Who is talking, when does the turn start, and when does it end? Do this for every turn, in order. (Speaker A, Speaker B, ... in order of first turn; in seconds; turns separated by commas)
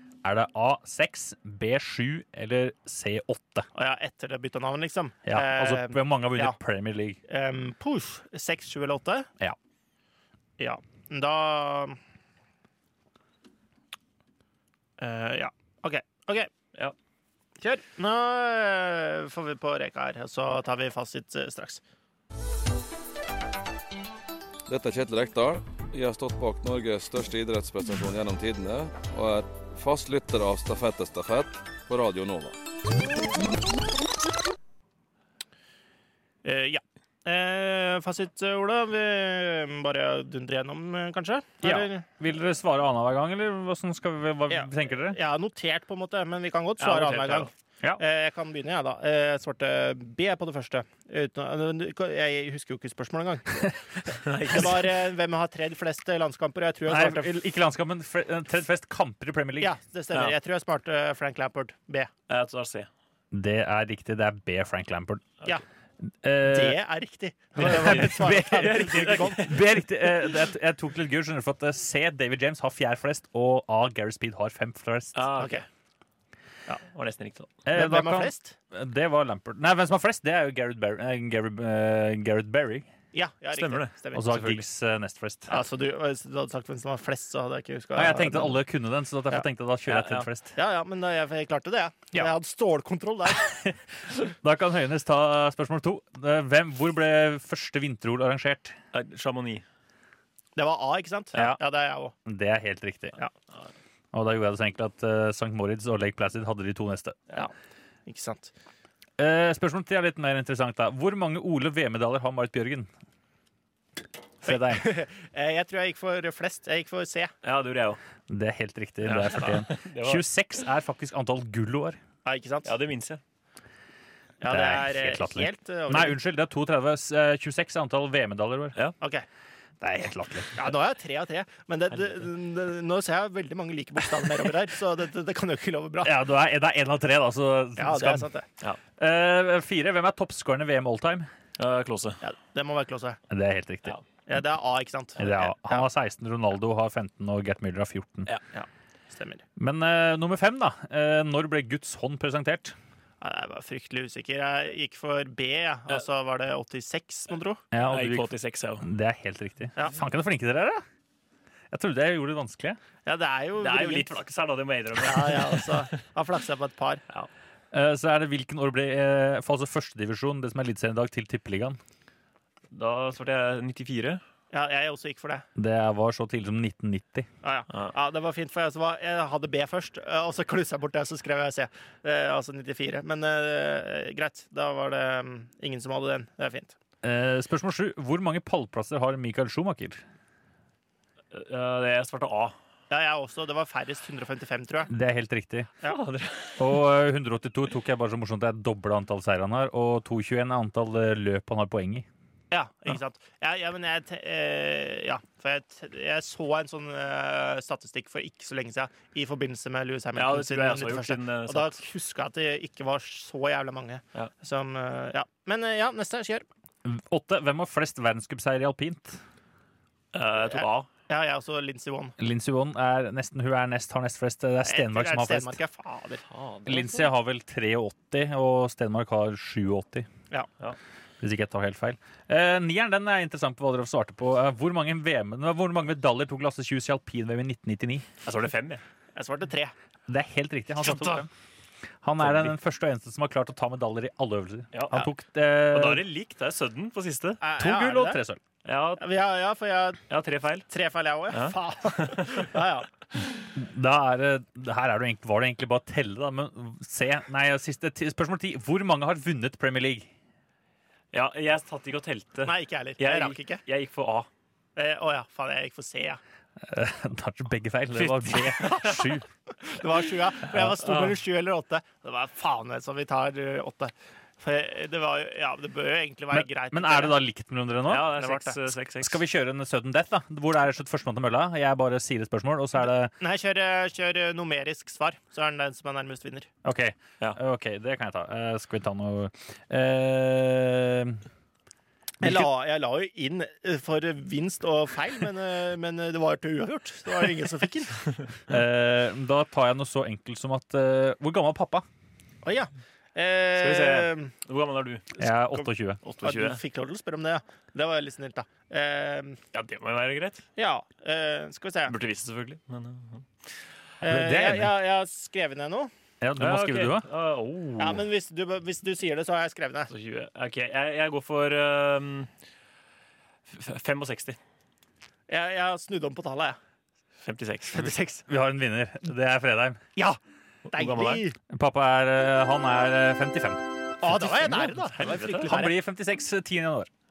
Speaker A: 0.2-3.7, Speaker B: 3.7-6.6, Speaker A: 5.2-7.2, Speaker B: 7.3-9.3, Speaker B: 10.6-12.0, Speaker B: 15.0-16.5, Speaker B: 17.6-21.8, Speaker C: 24.7-32.5, Speaker B: 36.4-42.0, Speaker A: 41.6-45.2, Speaker B: 44.5-53.7, Speaker D: 46.8-47.5, Speaker D: 54.2-54.8, Speaker B: 54.5-57.3, Speaker A: 56.9-59.7, Speaker B: 59.6-62.1, Speaker D: 62.3-62.9, Speaker A: 63.3-65.3, Speaker A: 66.2-66.8, Speaker B: 66.5-69.5, Speaker D: 67.6-69.6, Speaker A: 67.6-75.2, Speaker D: 75.1-75.6, Speaker B: 75.4-75.6, Speaker D: 76.9-77.5, Speaker A: 77.6-82.9, Speaker B: 77.7-78.5, Speaker B: 83.1-84.5, Speaker D: 83.5-84.6, Speaker A: 84.1-85.6, Speaker B: 85.5-88.6, Speaker A: 87.9-90.5, Speaker D: 89.9-90.3, Speaker B: 90.5-93.5, Speaker A: 93.5-93.7, Speaker A: 94.2-98.8, Speaker D: 98.9-99.6, Speaker B: 100.5-102.1, Speaker A: 102.2-103.1, Speaker A: 104.1-107.2, Speaker B: 108.1-108.5, Speaker A: 109.2-112.9, Speaker A: 114.4-114.8, Speaker B: 114.4-117.3, Speaker D: 117.4-118.0, Speaker A: 118.3-122.0, Speaker D: 119.0-120.2, Speaker B: 122.2-122.7, Speaker D: 122.6-123.2, Speaker B: 124.4-126.2, Speaker A: 124.5-128.8, Speaker A: 129.8-130.6, Speaker B: 130.6-136.2, Speaker A: 136.0-138.3, Speaker B: 137.8-138.4, Speaker A: 139.0-141.3, Speaker D: 141.6-142.2, Speaker B: 142.2-143.2, Speaker A: 143.3-143.9, Speaker B: 144.3-145.9, Speaker A: 145.2-148.3, Speaker B: 148.5-149.4, Speaker A: 149.6-152.8, Speaker B: 153.2-157.6, Speaker A: 157.7-160.8, Speaker D: 157.9-158.8, Speaker A: 161.7-162.8, Speaker B: 163.1-164.2, Speaker D: 163.6-165.9, Speaker B: 165.0-167.0, Speaker A: 167.7-171.8, Speaker D: 172.7-174.2, Speaker B: 174.5-175.4, Speaker A: 175.6-177.3, Speaker B: 177.4-186.7, Speaker A: 187.0-190.0, Speaker D: 191.3-192.5, Speaker B: 192.9-194.9, Speaker A: 194.9-195.7, Speaker D: 195.8-196.7, Speaker A: 196.6-202.1, Speaker B: 202.5-216.4, Speaker D: 210.2-211.8, Speaker A: 216.8-219.2, Speaker D: 220.1-220.9, Speaker B: 220.5-222.1, Speaker A: 222.2-225.6, Speaker B: 224.6-226.2, Speaker D: 226.3-227.1, Speaker A: 226.7-230.1, Speaker A: 231.2-238.1, Speaker D: 238.2-238.8, Speaker B: 239.1-239.7, Speaker A: 240.1-241.3, Speaker A: 242.0-246.0, Speaker D: 242.2-242.5, Speaker D: 244.7-245.0, Speaker D: 245.7-247.4, Speaker B: 247.4-248.2, Speaker A: 247.6-248.4, Speaker D: 248.6-249.0, Speaker B: 249.0-250.0, Speaker D: 250.1-250.7, Speaker B: 250.7-252.9, Speaker D: 251.3-252.5, Speaker A: 253.5-260.1, Speaker D: 261.1-264.3, Speaker B: 262.4-263.6, Speaker B: 264.8-266.2, Speaker A: 266.6-269.2, Speaker D: 267.9-269.0, Speaker B: 269.6-277.2, Speaker D: 270.6-271.1, Speaker A: 276.3-278.1, Speaker D: 277.9-279.2, Speaker B: 278.1-278.6, Speaker A: 279.0-283.1, Speaker B: 283.2-286.5, Speaker A: 286.6-291.2, Speaker A: 292.2-292.5, Speaker B: 292.2-298.0, Speaker A: 298.5-301.9, Speaker B: 302.4-304.3, Speaker D: 303.6-305.1, Speaker A: 305.2-306.0, Speaker D: 306.0-306.6, Speaker B: 306.2-309.4, Speaker D: 309.5-310.4, Speaker B: 310.6-311.9, Speaker D: 311.9-313.3, Speaker B: 314.0-315.9, Speaker A: 314.1-314.7, Speaker A: 316.2-317.1, Speaker D: 316.4-318.0, Speaker B: 317.8-319.9, Speaker D: 319.9-322.3, Speaker D: 323.5-324.4, Speaker B: 325.3-326.6, Speaker D: 327.2-327.8, Speaker B: 327.7-328.2, Speaker A: 328.3-329.8, Speaker D: 330.7-331.2, Speaker B: 330.7-331.4, Speaker A: 331.5-336.9, Speaker B: 334.0-335.7, Speaker D: 334.9-335.6